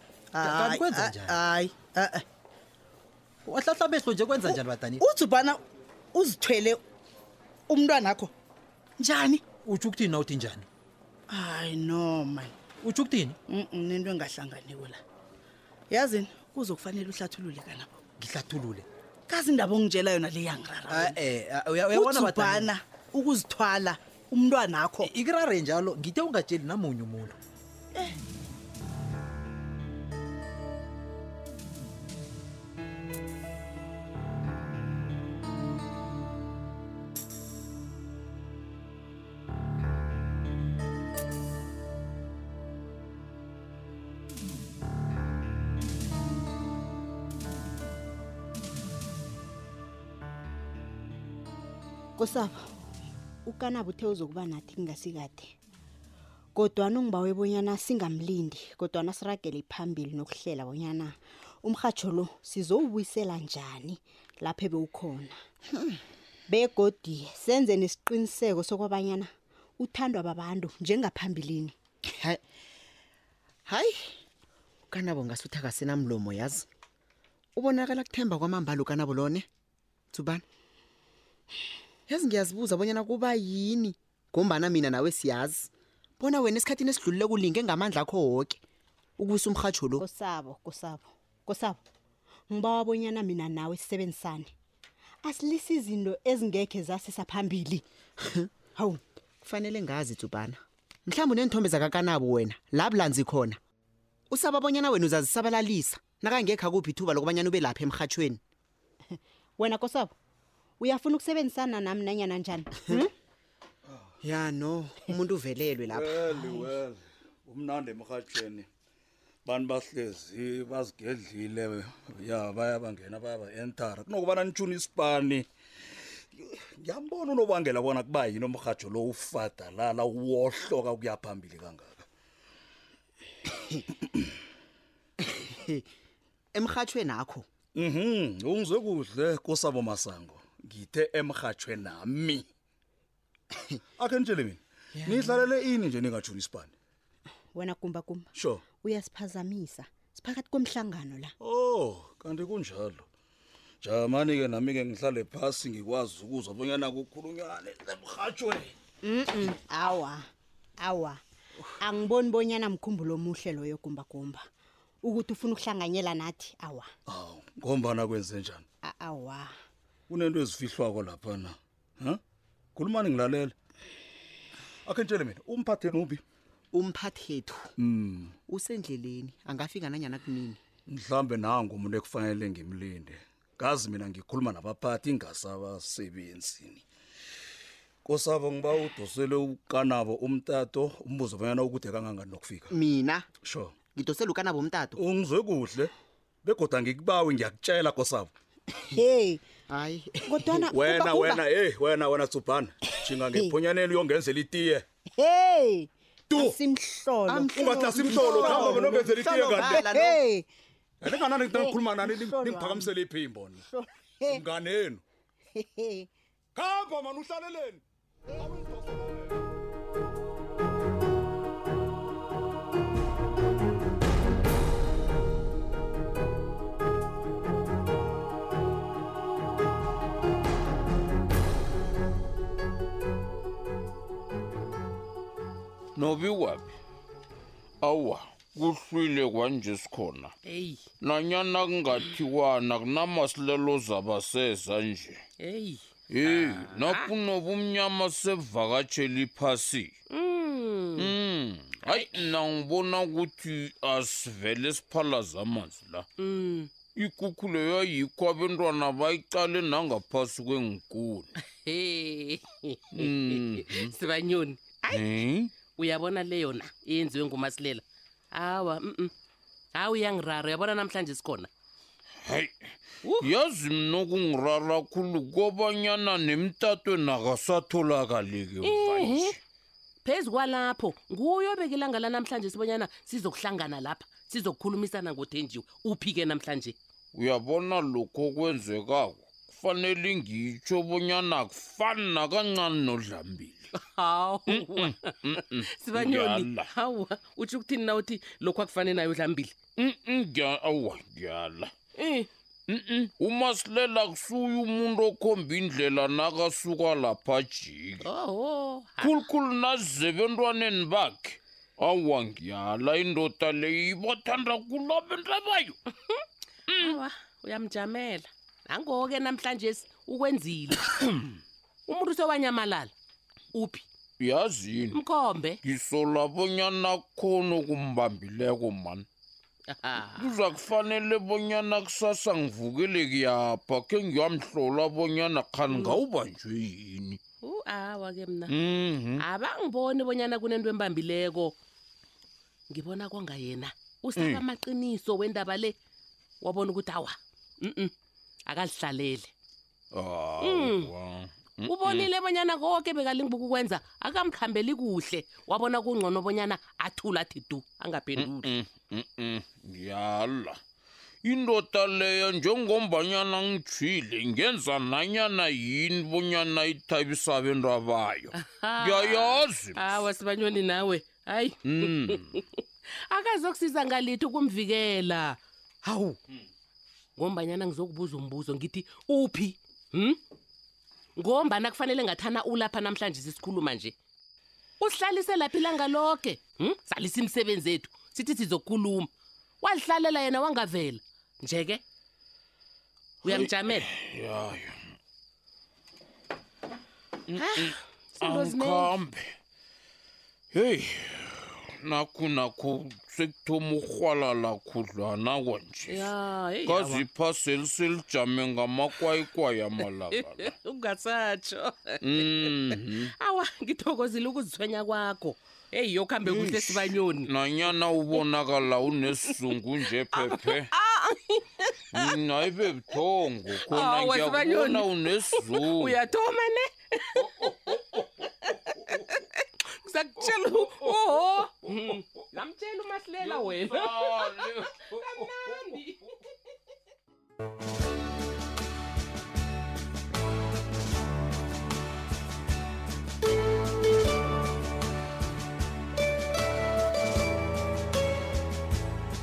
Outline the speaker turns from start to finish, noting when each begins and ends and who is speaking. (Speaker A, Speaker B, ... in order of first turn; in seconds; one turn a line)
Speaker A: 0.3-2.2
Speaker B: 0.4-1.4
Speaker B: 3.5-5.0
Speaker A: 4.5-5.6
Speaker A: 6.2-6.8
Speaker A: 7.7-8.3
Speaker A: 9.0-9.4
Speaker B: 9.7-10.7
Speaker A: 11.3-12.5
Speaker B: 12.8-13.4
Speaker A: 13.5-15.0
Speaker A: 15.9-17.9
Speaker B: 18.2-18.9
Speaker A: 19.3-21.1
Speaker B: 20.9-22.7
Speaker A: 21.9-25.1
Speaker B: 25.0-27.4
Speaker C: 52.2-52.6
Speaker C: 53.5-55.5
Speaker C: 56.5-65.3
Speaker C: 66.5-71.7
Speaker D: 73.7-74.0
Speaker D: 74.9-76.7
Speaker D: 77.6-79.5
Speaker D: 80.1-80.4
Speaker D: 82.1-88.6
Speaker D: 89.2-90.1
Speaker C: 90.0-91.8
Speaker C: 92.5-94.5
Speaker C: 95.2-97.8
Speaker D: 98.2-98.5
Speaker C: 98.7-99.0
Speaker D: 99.4-103.6
Speaker D: 104.3-108.4
Speaker C: 109.6-110.1
Speaker C: 110.8-113.1
Speaker E: 113.9-114.2
Speaker D: 114.2-116.2
Speaker E: 115.8-118.7
Speaker E: 119.5-125.5
Speaker E: 126.4-132.0
Speaker D: 135.2-135.8
Speaker D: 136.6-137.4
Speaker E: 137.8-142.5
Speaker E: 144.0-146.7
Speaker C: 147.5-151.3
Speaker E: 148.3-148.6
Speaker E: 151.4-153.1
Speaker E: 153.8-158.7
Speaker C: 159.0-160.2
Speaker C: 160.8-161.2
Speaker C: 161.8-164.4
Speaker C: 165.0-166.9
Speaker E: 167.1-168.6
Speaker C: 168.8-169.5
Speaker E: 170.1-172.2
Speaker E: 172.8-173.5
Speaker E: 174.9-176.2
Speaker D: 176.7-177.7
Speaker E: 177.8-178.3
Speaker D: 178.5-180.6
Speaker E: 180.9-186.8
Speaker E: 188.1-192.8
Speaker D: 192.7-193.2
Speaker E: 193.4-193.8
Speaker D: 193.9-195.0
Speaker E: 194.9-195.9
Speaker E: 196.4-198.3
Speaker C: 198.9-199.6
Speaker D: 199.7-200.3
Speaker C: 200.3-201.4
Speaker E: 200.5-204.8
Speaker C: 203.2-203.5
Speaker C: 205.2-210.5
Speaker E: 206.3-206.6
Speaker D: 207.3-209.8
Speaker E: 207.4-210.2
Speaker E: 211.0-213.6
Speaker C: 211.3-212.9
Speaker C: 213.6-214.4
Speaker E: 214.3-215.0
Speaker C: 215.6-216.1
Speaker E: 216.6-217.8
Speaker E: 218.3-219.4
Speaker F: 235.9-236.7
Speaker F: 237.8-240.3
Speaker G: 240.4-240.9
Speaker F: 241.0-245.2
Speaker G: 245.4-247.1
Speaker F: 246.1-249.9
Speaker G: 250.1-251.1
Speaker F: 251.0-256.1
Speaker G: 251.8-252.2
Speaker G: 256.2-256.8
Speaker F: 256.9-261.3
Speaker G: 261.6-269.1
Speaker F: 262.9-263.9
Speaker F: 264.9-265.5
Speaker G: 269.8-271.5
Speaker F: 272.2-272.5
Speaker G: 273.0-273.3
Speaker F: 273.2-279.4
Speaker G: 278.6-279.4
Speaker G: 280.1-286.8
Speaker F: 287.1-293.7
Speaker G: 293.8-299.6
Speaker F: 294.5-296.7
Speaker F: 299.8-301.7
Speaker G: 302.0-302.3
Speaker F: 302.7-308.1
Speaker G: 308.0-309.2
Speaker F: 309.0-315.8
Speaker F: 316.7-317.0
Speaker G: 316.8-322.9
Speaker G: 323.5-323.9
Speaker F: 324.2-325.0
Speaker G: 324.9-325.6
Speaker F: 325.6-329.1
Speaker G: 329.7-330.5
Speaker F: 330.0-337.2
Speaker G: 335.7-336.0
Speaker G: 337.4-338.5
Speaker F: 338.5-339.2
Speaker G: 339.2-341.5
Speaker G: 342.7-345.7
Speaker F: 344.2-344.4
Speaker G: 346.4-347.9
Speaker G: 348.5-349.3
Speaker F: 349.9-352.1
Speaker G: 350.4-350.9
Speaker G: 351.6-358.6
Speaker F: 358.1-360.6
Speaker F: 361.2-370.0
Speaker G: 368.3-372.6
Speaker F: 371.6-372.3
Speaker G: 373.1-376.2
Speaker G: 377.2-380.2
Speaker G: 381.2-383.9
Speaker G: 384.8-389.1
Speaker G: 389.6-391.8
Speaker G: 393.2-393.9
Speaker F: 393.2-394.7
Speaker F: 397.3-399.3
Speaker G: 397.4-398.9
Speaker F: 400.5-406.1
Speaker G: 405.9-407.1
Speaker F: 406.7-410.5
Speaker G: 410.1-417.3
Speaker F: 412.0-413.1
Speaker F: 416.2-420.7
Speaker G: 420.1-422.1
Speaker F: 421.9-426.0
Speaker G: 423.6-436.2
Speaker F: 427.2-428.0
Speaker F: 430.5-431.2
Speaker F: 433.2-435.6